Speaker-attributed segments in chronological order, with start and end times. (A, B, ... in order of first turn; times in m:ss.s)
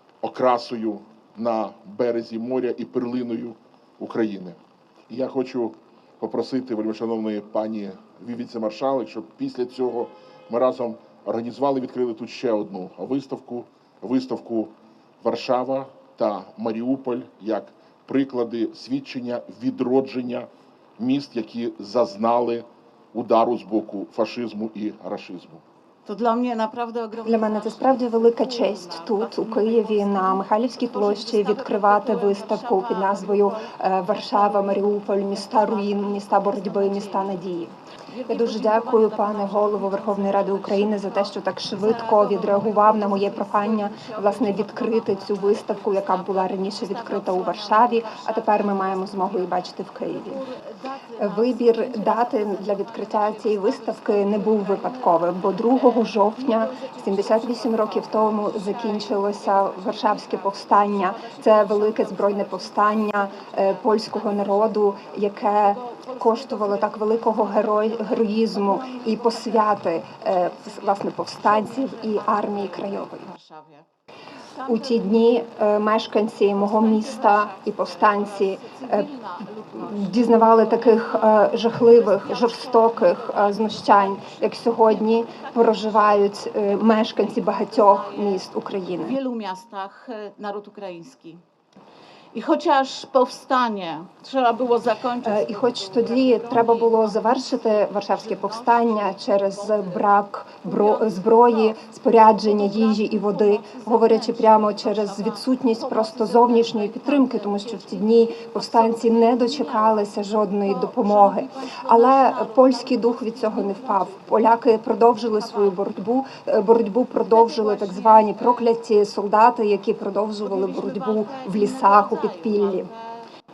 0:00.2-0:25.6 A
0:26.0-0:37.5 B
0:27.2-0:37.7 C
0:38.1-1:13.8 B
0:38.3-0:50.4 C
0:51.2-1:13.3 C
1:14.6-1:15.2 B
1:14.6-1:19.1 C
1:16.6-1:26.3 B
1:19.8-1:29.2 C
1:27.2-1:28.4 B
1:29.0-1:31.4 B
1:32.3-1:54.6 B
1:35.2-2:02.9 C
1:55.1-1:55.8 B
1:57.1-1:58.7 B
2:00.4-2:03.0 B